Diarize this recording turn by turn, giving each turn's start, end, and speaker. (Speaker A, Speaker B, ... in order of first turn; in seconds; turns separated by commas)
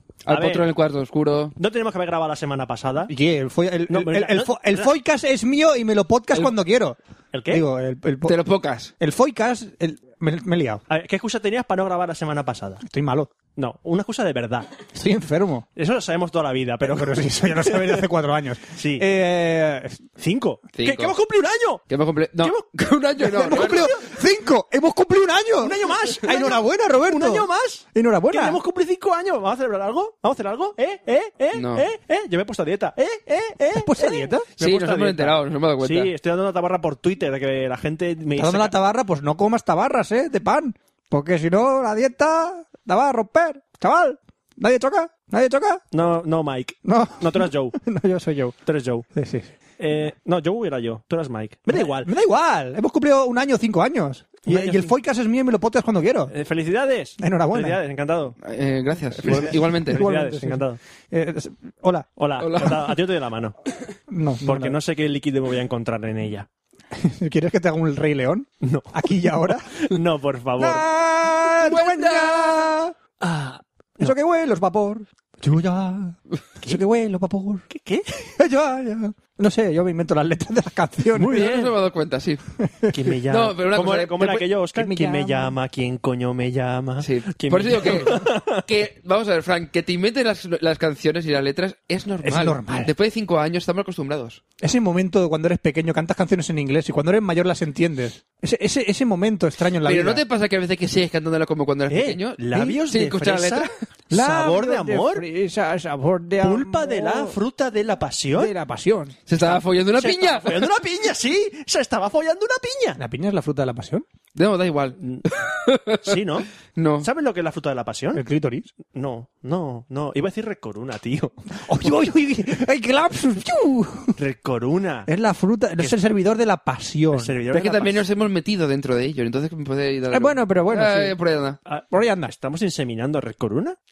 Speaker A: 0.3-1.6, Speaker B: 0.3-0.7, Speaker B: 1.6-3.1, Speaker C: 3.1-7.0, Speaker B: 3.9-4.9, Speaker B: 7.3-7.7, Speaker C: 7.5-8.4, Speaker A: 8.3-8.9, Speaker C: 9.0-10.8, Speaker B: 10.9-12.8, Speaker C: 12.8-13.3, Speaker B: 13.6-14.7, Speaker C: 14.9-15.7, Speaker B: 15.8-18.1, Speaker C: 16.8-20.1, Speaker B: 18.8-19.1, Speaker B: 20.2-21.8, Speaker A: 20.8-21.1, Speaker A: 21.9-24.0, Speaker B: 22.4-24.0, Speaker C: 23.2-28.6, Speaker B: 25.6-38.8, Speaker A: 31.5-31.8, Speaker C: 33.7-34.5, Speaker A: 34.6-36.1, Speaker C: 38.4-45.8, Speaker B: 45.9-47.8, Speaker C: 46.9-48.6, Speaker B: 48.6-49.1, Speaker C: 49.1-49.5, Speaker B: 49.8-52.1, Speaker C: 51.7-56.3, Speaker B: 54.5-54.9, Speaker B: 56.3-58.4, Speaker C: 57.2-57.8, Speaker A: 58.4-60.1, Speaker B: 59.2-60.8, Speaker C: 59.3-62.1, Speaker B: 62.2-63.5, Speaker A: 62.4-62.9, Speaker C: 64.1-64.8, Speaker B: 64.4-66.5, Speaker C: 66.9-69.7, Speaker B: 68.6-70.8, Speaker C: 70.6-72.9, Speaker A: 71.5-72.7, Speaker B: 73.2-74.1, Speaker C: 74.0-77.7, Speaker B: 77.7-78.3, Speaker C: 78.4-81.5, Speaker B: 81.2-81.7, Speaker A: 81.3-82.4, Speaker C: 82.6-83.0, Speaker B: 82.9-88.6, Speaker A: 83.3-84.5, Speaker C: 84.8-85.5, Speaker A: 87.0-94.4, Speaker C: 92.2-92.9, Speaker C: 94.6-100.2, Speaker A: 99.8-103.7, Speaker B: 101.9-105.3, Speaker C: 104.1-107.4, Speaker B: 106.4-108.5, Speaker C: 108.4-109.2, Speaker A: 109.3-110.7, Speaker B: 109.4-113.0, Speaker C: 113.0-114.1, Speaker A: 114.3-116.2, Speaker B: 115.0-115.3, Speaker B: 116.0-116.5, Speaker A: 116.8-117.1, Speaker B: 117.0-118.2, Speaker C: 118.2-118.7, Speaker B: 118.9-121.9, Speaker C: 121.6-124.2, Speaker B: 124.2-125.1, Speaker C: 125.1-127.4, Speaker B: 127.1-128.0, Speaker A: 127.5-131.6, Speaker C: 130.1-131.2, Speaker B: 131.7-133.8, Speaker C: 131.9-132.3